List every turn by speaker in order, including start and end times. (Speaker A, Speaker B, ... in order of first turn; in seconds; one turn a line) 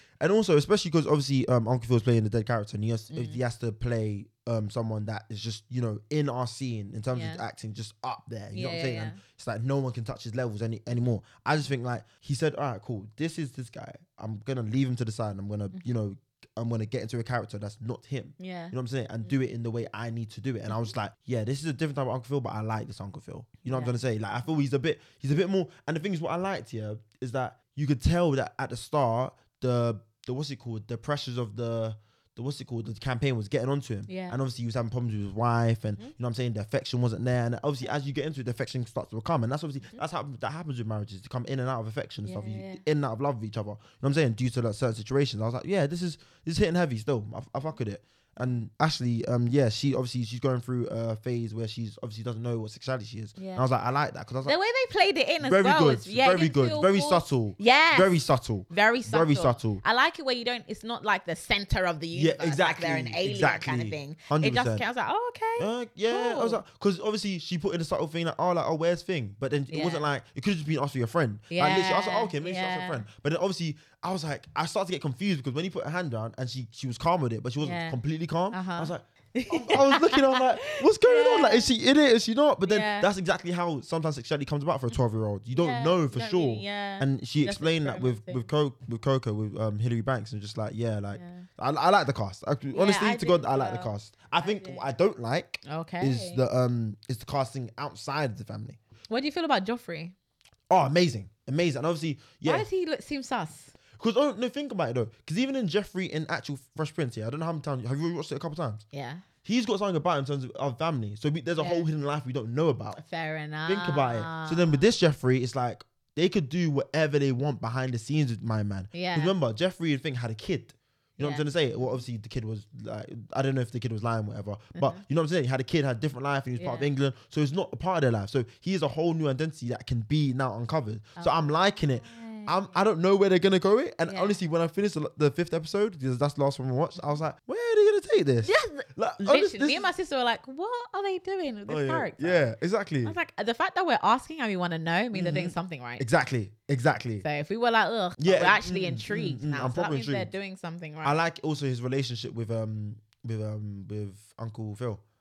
Speaker A: 0.2-54.6
Speaker B: 3.1-3.4
Speaker B: 7.1-7.4
Speaker B: 8.5-9.2
Speaker B: 18.4-18.7
Speaker B: 23.7-24.0
Speaker B: 34.1-34.4
Speaker B: 42.2-42.8
Speaker B: 53.4-53.6
Speaker B: 54.4-58.1
Speaker A: 55.4-59.8
Speaker B: 58.7-66.6
Speaker A: 62.1-64.8
Speaker A: 65.6-98.8
Speaker B: 69.7-70.1
Speaker B: 71.5-73.0
Speaker B: 77.6-78.0
Speaker B: 78.5-81.7
Speaker B: 82.7-83.1
Speaker B: 85.5-88.5
Speaker B: 91.2-91.5
Speaker B: 92.7-94.9
Speaker B: 95.7-96.4
Speaker B: 99.1-100.1
Speaker A: 100.7-102.7
Speaker B: 102.4-103.8
Speaker A: 104.0-108.8
Speaker B: 108.9-109.2
Speaker A: 109.5-113.0
Speaker B: 111.6-111.9
Speaker B: 113.0-114.9
Speaker A: 113.7-139.9
Speaker B: 118.9-119.3
Speaker B: 121.2-122.0
Speaker B: 124.8-125.0
Speaker B: 126.6-126.9
Speaker B: 131.2-132.6
Speaker B: 134.1-134.4
Speaker B: 138.4-142.4
Speaker A: 141.7-143.2
Speaker B: 143.0-146.1
Speaker A: 145.1-147.2
Speaker B: 147.2-151.2
Speaker A: 148.2-150.3
Speaker A: 151.0-155.0